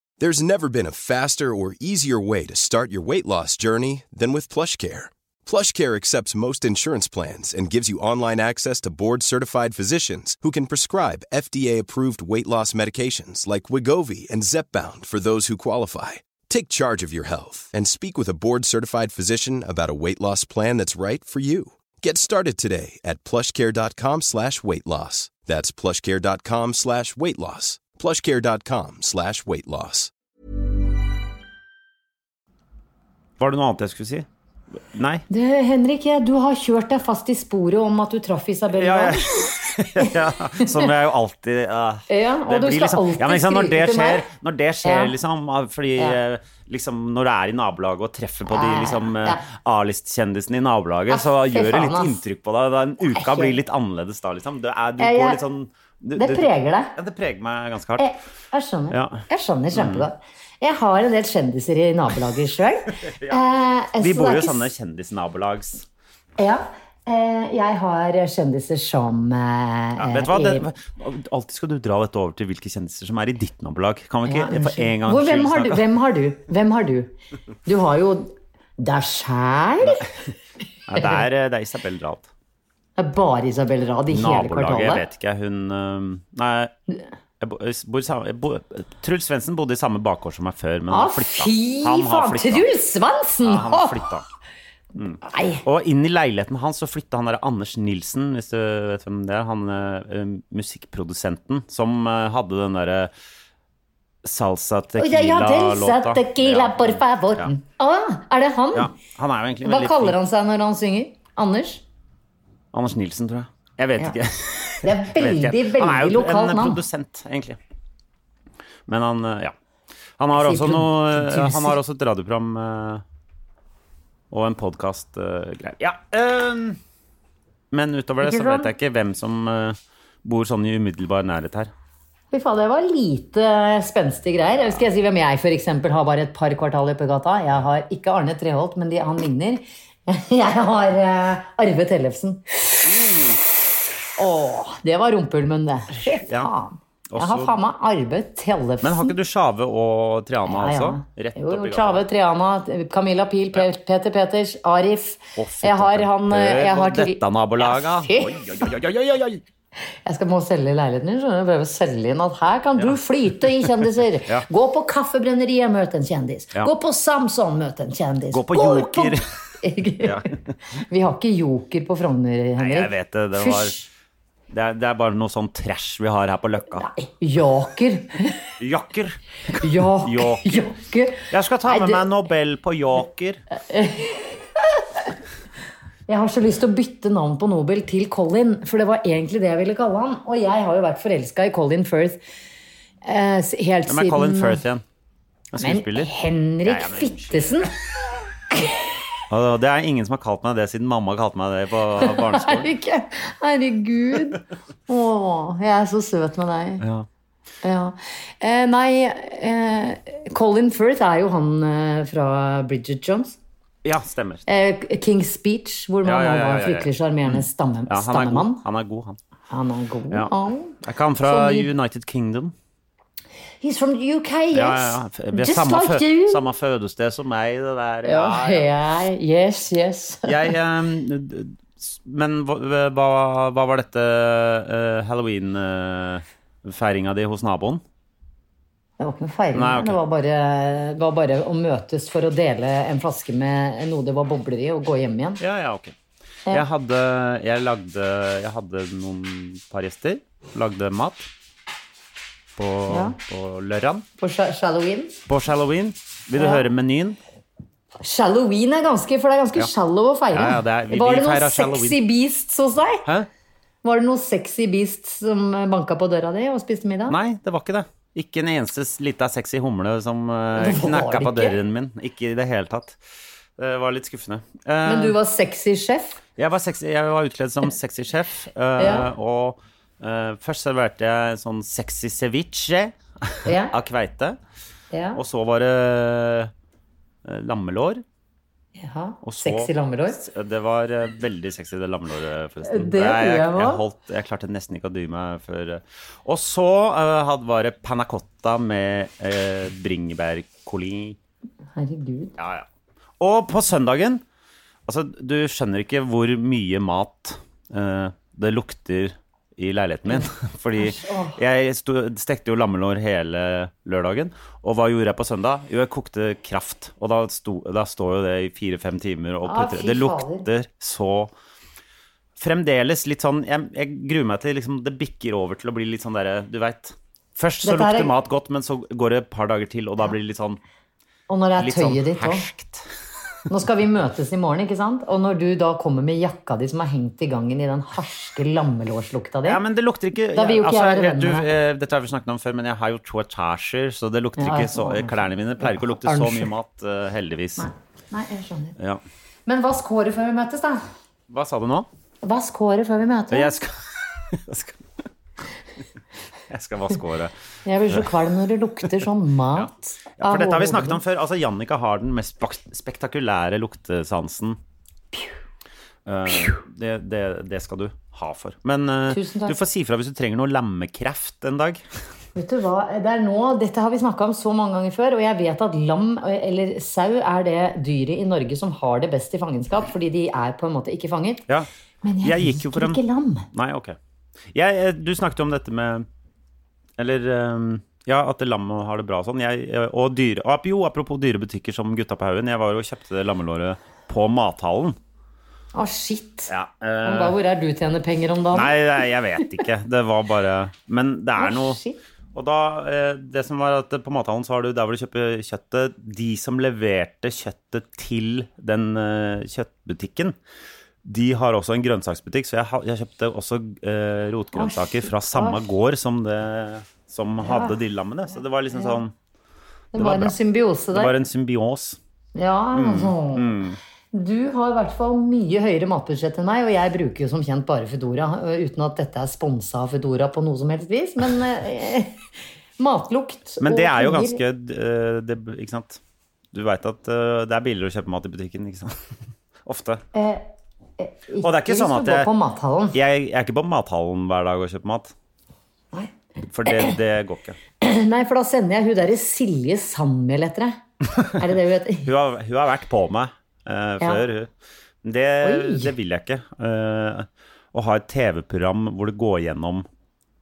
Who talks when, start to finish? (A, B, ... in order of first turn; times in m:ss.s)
0:00.2-0:30.1 A
0:33.4-0:34.2 B
0:34.9-0:35.2 B
0:35.3-0:40.9 C
0:38.7-0:58.0 B
0:42.1-0:44.2 C
0:44.8-0:45.1 C
0:48.5-0:49.4 C
0:51.1-0:52.2 C
0:53.1-0:53.5 C
0:55.0-0:55.4 C
0:56.2-0:56.9 C
0:58.0-1:04.7 C
0:58.9-0:59.2 B
0:59.7-1:00.1 B
1:03.0-1:03.4 B
1:04.0-1:05.8 B
1:06.4-1:10.7 C
1:10.0-1:15.8 B
1:14.2-1:17.1 C
1:17.6-1:20.1 C
1:20.9-1:22.3 B
1:21.0-1:21.2 C
1:23.0-1:25.0 C
1:24.1-1:26.7 B
1:27.4-1:32.7 B
1:30.9-1:34.0 C
1:33.4-1:34.2 B
1:35.0-1:43.1 B
1:35.2-1:35.6 C
1:44.2-1:47.5 B
1:45.0-1:48.9 C
1:48.7-1:50.2 B
1:49.6-1:51.8 C
1:52.7-1:57.6 B
1:54.8-1:56.8 C
1:58.9-1:59.5 B
2:00.2-2:03.0 B
2:00.4-2:01.8 C
2:04.3-2:06.8 B
2:07.7-2:11.7 B
2:08.2-2:08.7 C
2:12.3-2:22.8 C
2:22.9-2:23.4 B
2:24.2-2:29.1 C
2:25.9-2:26.5 B
2:27.1-2:27.5 B
2:28.8-2:32.0 B
2:30.4-2:38.4 C
2:35.4-2:39.4 B
2:40.0-2:53.8 C
2:48.3-2:49.2 B
2:50.0-2:50.3 B
2:52.6-2:53.8 B
2:54.5-2:56.9 B
2:56.8-2:58.5 C
2:58.6-3:00.6 B
2:59.6-3:02.0 C
3:01.3-3:03.4 B
3:03.5-3:05.1 C
3:06.1-3:12.2 C
3:13.0-3:14.6 C
3:13.9-3:14.8 B
3:15.5-3:16.1 B
3:15.6-3:17.7 C
3:16.6-3:17.6 B
3:18.5-3:18.8 C
3:19.3-3:22.7 B
3:22.0-3:26.8 C
3:26.8-3:27.1 B
3:27.6-3:33.4 C
3:33.8-3:34.4 B
3:34.5-3:38.6 C
3:36.0-3:39.2 B
3:39.5-3:41.7 C
3:40.8-3:42.5 B
3:43.6-3:46.4 C
3:44.5-3:48.7 B
3:48.0-3:50.5 C
3:50.2-3:57.8 B
3:59.0-4:05.4 C
3:59.5-4:00.0 B
4:05.4-4:05.9 B
4:06.5-4:11.3 B
4:12.6-4:14.0 B
4:12.9-4:13.2 C
4:14.2-4:15.2 C
4:15.3-4:17.2 B
4:16.4-4:16.6 C
4:18.0-4:23.0 C
4:20.3-4:22.0 B
4:23.8-4:27.2 C
4:27.1-4:33.0 B
4:30.6-4:31.6 C
4:33.6-4:35.2 B
4:34.8-4:36.2 C
4:36.4-4:44.4 B
4:38.8-4:39.1 C
4:43.4-4:43.7 C
4:44.9-4:45.2 C
4:45.2-4:46.5 B
4:47.2-4:48.0 B
4:48.8-4:50.2 C
4:49.2-5:01.2 B
4:52.6-4:53.8 C
5:01.8-5:02.3 C
5:02.4-5:02.6 B
5:03.2-5:04.2 B
5:04.9-5:21.3 B
5:10.1-5:11.4 C
5:19.4-5:20.4 C
5:22.4-5:30.6 B
5:27.6-5:28.1 C
5:31.3-5:32.4 C
5:31.6-5:32.8 B
5:33.5-5:39.6 C
5:39.4-5:47.7 B
5:40.3-5:41.4 C
5:44.4-5:46.5 C
5:47.6-5:48.8 C
5:49.4-5:50.9 C
5:51.3-5:51.9 B
5:52.2-5:53.5 C
5:53.3-5:54.8 B
5:56.5-5:57.3 B
5:57.6-6:01.0 C
5:59.6-6:04.6 B
6:06.0-6:11.8 B
6:09.1-6:09.6 C
6:12.3-6:21.4 C
6:22.0-6:23.5 C
6:22.2-6:23.0 B
6:23.5-6:24.0 B
6:24.5-6:26.0 B
6:27.0-6:35.0 B
6:35.7-6:36.5 C
6:36.5-6:37.3 B
6:37.0-6:38.7 C
6:38.5-6:41.8 B
6:41.4-6:42.0 C
6:42.3-6:50.3 B
6:51.0-6:59.1 B
6:54.5-6:55.6 C
6:57.4-6:57.8 C
6:59.9-7:01.1 C
6:59.9-7:00.3 B
7:00.9-7:02.0 B
7:02.3-7:03.5 C
7:02.7-7:03.8 B
7:04.1-7:12.2 C
7:12.8-7:14.4 C
7:13.6-7:16.0 B
7:16.5-7:19.0 B
7:19.6-7:20.0 B
7:20.1-7:20.5 C
7:21.0-7:23.0 C
7:21.4-7:22.3 B
7:22.9-7:25.1 B
7:26.5-7:27.6 B
7:26.6-7:26.9 C
7:27.8-7:32.1 C
7:32.0-7:34.5 B
7:35.0-7:39.8 B
7:35.4-7:35.9 C